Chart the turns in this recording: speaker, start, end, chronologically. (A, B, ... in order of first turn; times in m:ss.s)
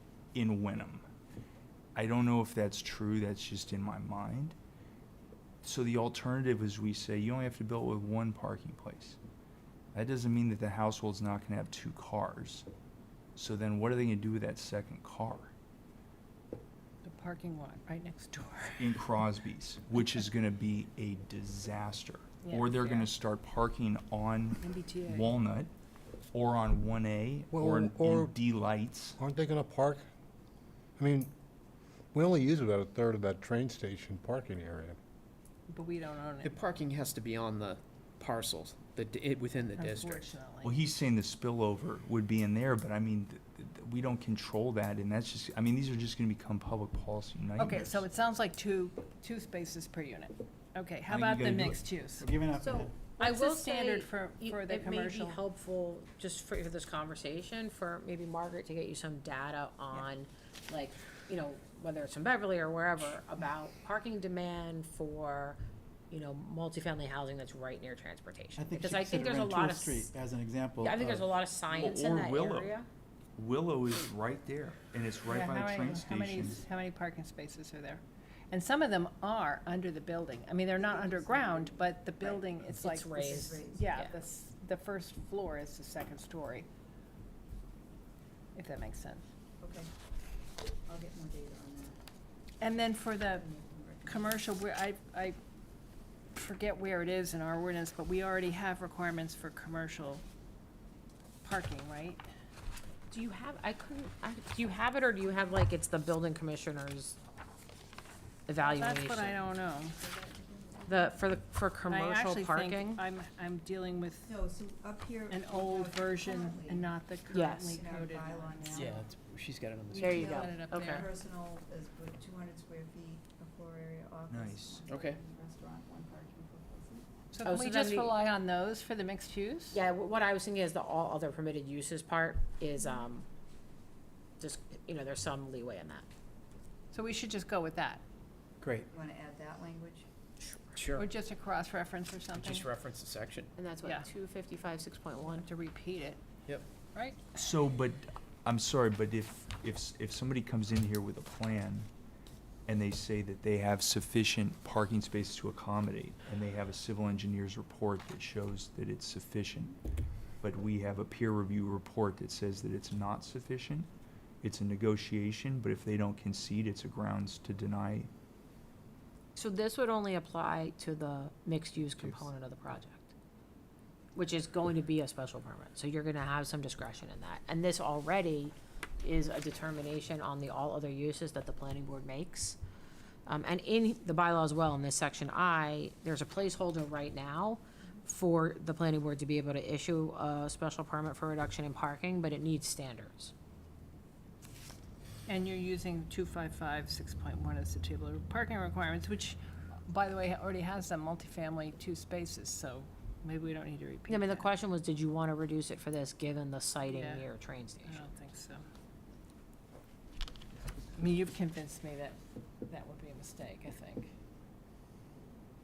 0:00.3-0:01.0 A
0:02.0-0:04.6 A
0:05.6-0:09.2 A
0:09.9-0:12.7 A
0:13.4-0:15.5 A
0:17.0-0:19.0 B
0:18.8-0:25.7 A
0:22.4-0:23.1 B
0:24.6-0:25.4 B
0:26.3-0:29.2 A
0:27.5-0:28.3 C
0:29.2-0:30.1 C
0:31.0-0:31.3 C
0:32.1-0:35.0 C
0:35.7-0:36.6 B
0:36.4-0:40.3 D
0:39.8-0:40.8 B
0:40.6-0:48.0 A
0:47.6-0:52.3 B
0:51.1-0:51.8 A
0:52.2-0:53.0 E
0:52.6-1:05.6 F
0:53.1-0:55.4 B
1:06.1-1:10.1 F
1:08.6-1:11.3 E
1:10.8-1:12.9 F
1:11.7-1:12.8 A
1:13.4-1:16.6 A
1:15.3-1:26.7 B
1:20.8-1:22.5 G
1:22.6-1:24.1 F
1:23.3-1:23.8 G
1:28.6-1:29.2 B
1:29.6-1:29.9 G
1:30.9-1:32.0 G
1:32.6-1:33.5 B
1:33.4-1:34.3 G
1:34.0-1:35.4 B
1:36.4-1:40.2 B
1:41.4-1:42.2 B
1:43.1-1:47.2 F
1:48.5-1:49.4 F
1:48.6-1:50.0 B
1:49.9-1:51.2 G
1:50.9-1:53.0 F
1:51.9-1:54.4 B
1:54.3-1:56.8 G
1:55.3-1:59.0 B
1:57.3-1:57.8 F
1:57.6-1:58.9 G
1:58.7-2:00.5 D
1:59.9-2:01.1 B
2:00.0-2:01.1 F
2:00.0-2:07.1 G
2:04.3-2:04.9 A
2:04.9-2:05.2 D
2:07.3-2:09.8 B
2:07.4-2:08.2 F
2:09.7-2:13.2 F
2:14.4-2:16.0 F
2:16.9-2:18.0 B
2:18.6-2:18.9 E
2:18.9-2:20.1 G
2:20.4-2:20.8 F
2:20.8-2:21.1 D
2:21.0-2:22.7 B
2:22.3-2:23.5 D
2:23.6-2:25.5 F
2:25.3-2:26.2 B
2:26.9-2:27.2 B
2:27.4-2:31.9 A
2:32.7-2:39.8 A
2:40.4-2:43.9 A
2:44.4-2:48.1 A
2:49.4-2:53.1 F
2:54.2-3:02.6 F
3:03.3-3:13.3 F
3:15.3-3:24.5 B
3:24.1-3:28.0 F
3:26.8-3:27.3 B
3:27.8-3:28.6 B
3:31.0-3:34.1 B